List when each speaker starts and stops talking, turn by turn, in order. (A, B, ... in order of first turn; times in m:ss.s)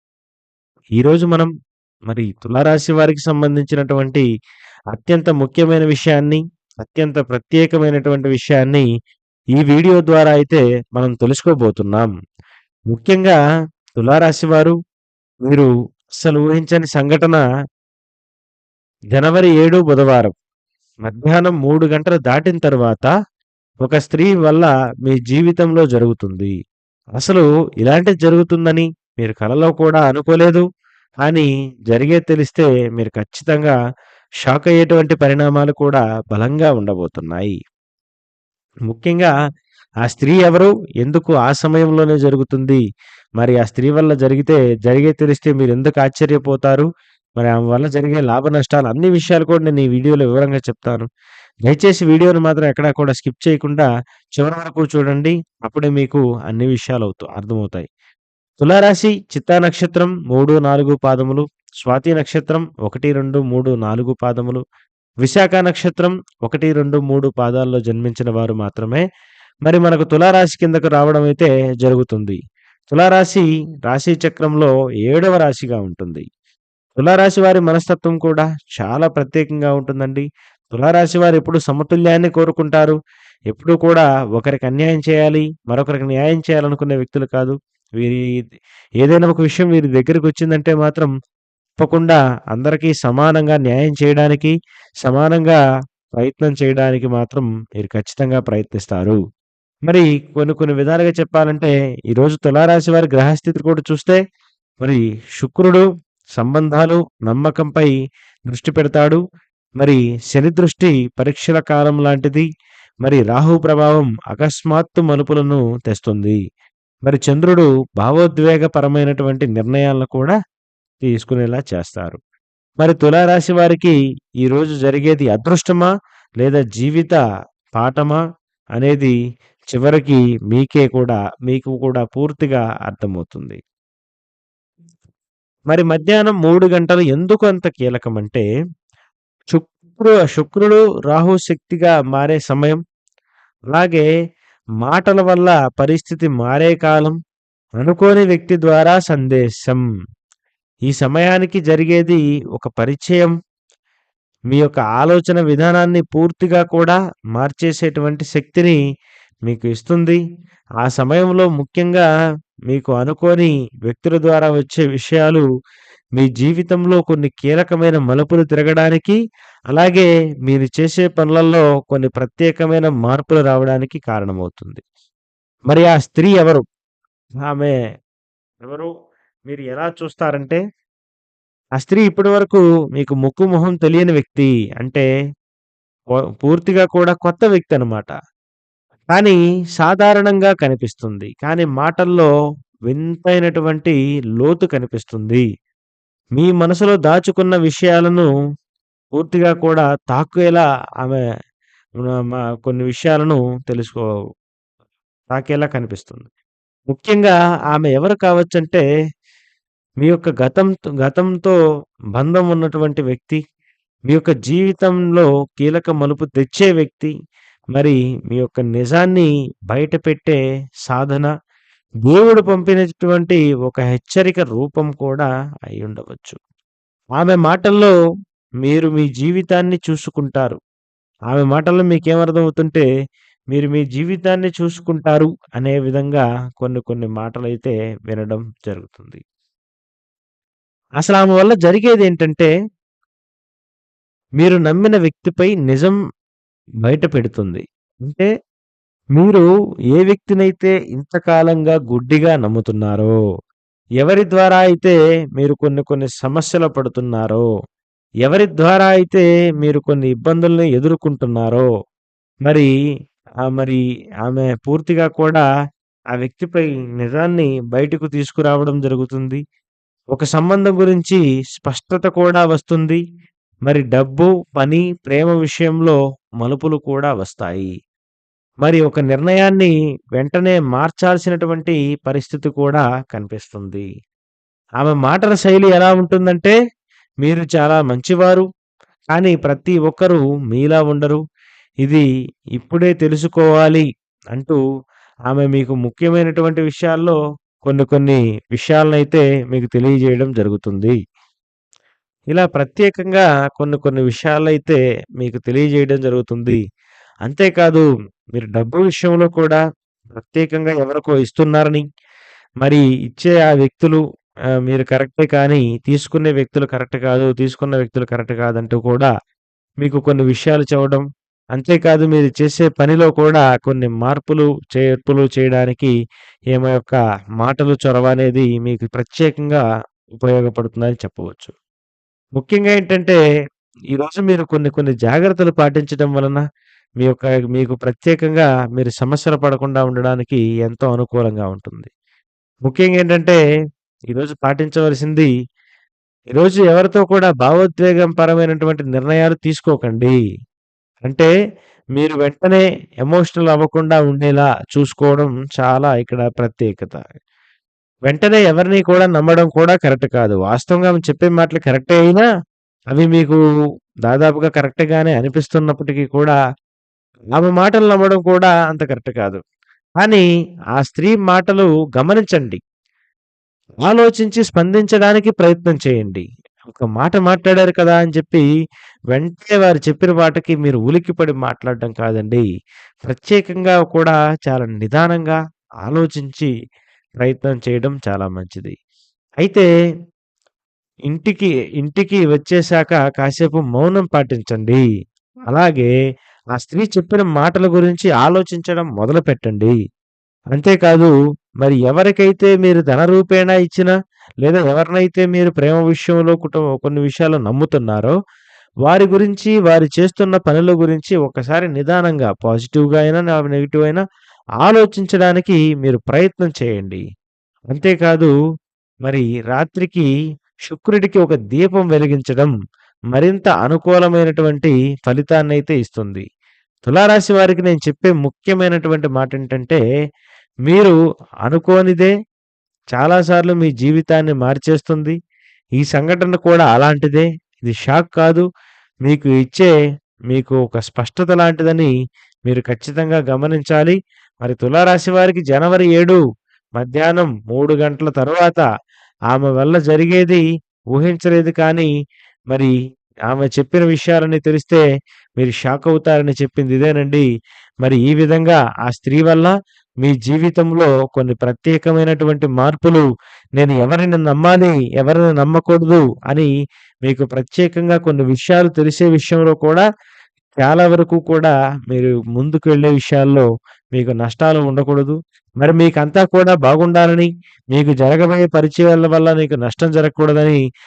0:01.0-0:01.5 A
0:02.1-0:04.2 A
0:04.9-0:08.8 A
0:09.6-0:12.1 A
0:12.9-0:13.4 A
0:14.0-0:14.7 A
0:16.2-0:17.4 A
0:19.1-0:20.3 A
0:21.0-0:23.1 A
0:23.8-0:26.5 A
0:27.2-0:30.6 A
0:31.2-0:33.7 A
0:34.4-0:37.6 A
0:38.9-0:39.3 A
0:40.0-0:42.8 A
0:43.4-0:46.8 A
0:47.4-0:51.0 A
0:51.6-0:53.9 A
0:54.4-0:57.8 A
0:58.6-1:04.6 A
1:05.2-1:09.0 A
1:09.6-1:12.4 A
1:12.9-1:16.2 A
1:17.0-1:22.9 A
1:23.5-1:28.2 A
1:29.0-1:31.1 A
1:31.8-1:34.5 A
1:35.0-1:35.6 A
1:36.2-1:39.2 A
1:39.9-1:44.2 A
1:44.8-1:45.8 A
1:46.4-1:47.9 A
1:48.5-1:49.2 A
1:49.8-1:52.4 A
1:53.0-1:56.4 A
1:57.0-2:00.3 A
2:01.0-2:02.2 A
2:02.8-2:05.9 A
2:06.4-2:07.2 A
2:07.8-2:08.2 A
2:08.8-2:09.1 A
2:09.7-2:13.6 A
2:15.7-2:18.4 A
2:19.5-2:22.8 A
2:23.7-2:24.0 A
2:24.8-2:27.2 A
2:27.8-2:29.8 A
2:30.9-2:33.3 A
2:34.5-2:38.8 A
2:39.5-2:40.2 A
2:40.8-2:42.0 A
2:42.7-2:45.4 A
2:46.2-2:49.2 A
2:49.7-2:54.8 A
2:55.7-2:56.6 A
2:57.5-2:57.7 A
2:58.6-2:58.9 A
2:59.5-3:00.6 A
3:01.8-3:05.0 A
3:06.4-3:08.1 A
3:09.1-3:12.3 A
3:12.9-3:15.4 A
3:16.4-3:18.3 A
3:19.2-3:21.2 A
3:22.0-3:24.0 A
3:25.3-3:26.3 A
3:26.9-3:28.8 A
3:30.0-3:31.6 A
3:32.1-3:33.4 A
3:34.1-3:37.1 A
3:37.7-3:41.3 A
3:42.0-3:46.4 A
3:47.2-3:47.9 A
3:48.6-3:50.6 A
3:51.3-3:52.8 A
3:53.5-3:59.2 A
4:01.0-4:02.5 A
4:04.4-4:06.0 A
4:06.8-4:08.3 A
4:09.2-4:13.1 A
4:14.0-4:17.4 A
4:18.2-4:21.6 A
4:23.5-4:25.4 A
4:26.1-4:29.4 A
4:30.1-4:33.0 A
4:33.7-4:37.7 A
4:38.6-4:43.8 A
4:44.8-4:46.5 A
4:47.2-4:48.4 A
4:49.1-4:51.2 A
4:52.6-4:53.8 A
4:55.3-5:00.9 A
5:02.3-5:06.6 A
5:07.2-5:09.6 A
5:10.2-5:11.8 A
5:12.6-5:14.0 A
5:14.7-5:19.1 A
5:19.8-5:21.0 A
5:21.6-5:25.9 A
5:26.5-5:29.6 A
5:30.2-5:31.5 A
5:32.4-5:33.2 A
5:33.9-5:36.4 A
5:37.0-5:41.9 A
5:42.7-5:43.4 A
5:44.1-5:45.3 A
5:46.3-5:50.1 A
5:51.0-5:51.3 A
5:52.0-5:57.0 A
5:58.1-6:02.2 A
6:02.9-6:03.4 A
6:04.1-6:06.4 A
6:07.4-6:09.4 A
6:10.8-6:12.6 A
6:13.8-6:18.4 A
6:19.1-6:22.4 A
6:23.0-6:26.5 A
6:27.2-6:28.7 A
6:29.4-6:29.6 A
6:31.1-6:34.8 A
6:35.5-6:35.9 A
6:36.6-6:39.7 A
6:40.5-6:43.9 A
6:44.4-6:48.1 A
6:48.8-6:54.0 A
6:54.6-6:57.0 A
6:57.7-6:58.3 A
6:59.0-7:00.0 A
7:00.7-7:02.5 A
7:03.1-7:06.2 A
7:06.9-7:09.8 A
7:10.7-7:10.9 A
7:11.4-7:12.1 A
7:12.9-7:15.2 A
7:15.8-7:18.4 A
7:19.0-7:19.7 A
7:20.3-7:21.9 A
7:22.5-7:26.2 A
7:26.8-7:28.6 A
7:29.3-7:31.9 A
7:33.3-7:34.8 A
7:35.4-7:37.2 A
7:37.8-7:39.5 A
7:40.0-7:43.0 A
7:43.6-7:46.5 A
7:47.0-7:49.8 A
7:50.6-8:00.6 A